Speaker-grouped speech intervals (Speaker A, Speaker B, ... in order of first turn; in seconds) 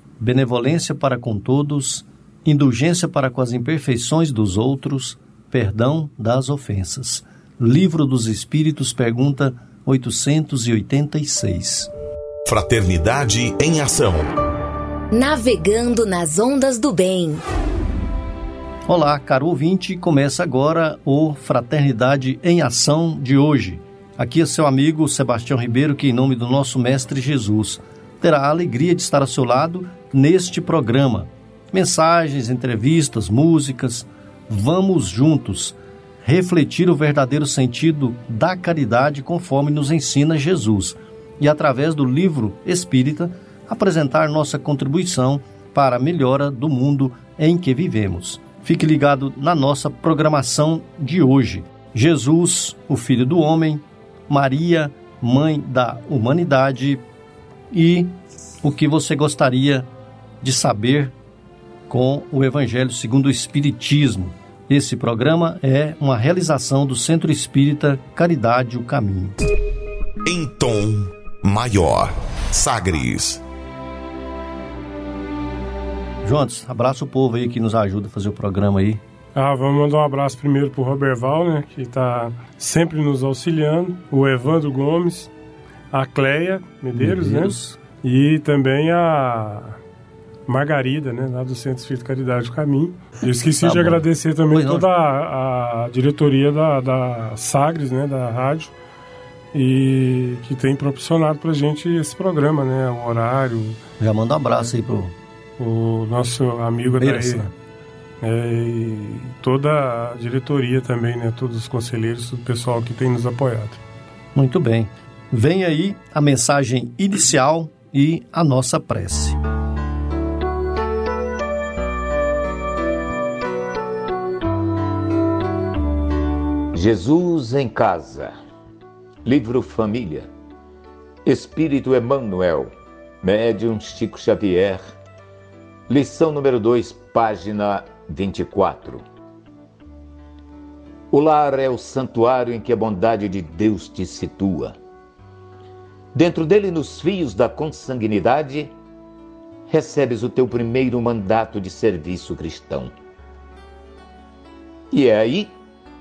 Speaker A: 0.2-11.9, 18.9-57.0, 57.7-59.9, 60.4-61.1, 61.9-69.4, 76.2-79.0, 87.0-87.8, 93.6-94.9, 104.0-105.1, 107.0-107.4, 114.3-119.4
Speaker B: 12.4-14.3, 70.2-73.4
Speaker C: 15.1-17.4
Speaker D: 79.3-85.3, 85.9-89.8, 90.5-98.8, 99.5-103.8, 105.6-107.5, 108.2-113.8
Speaker E: 126.7-128.3, 129.2-130.3, 131.2-134.8, 135.9-139.0, 141.1-144.8, 146.1-148.7, 149.7-152.9, 154.9-155.5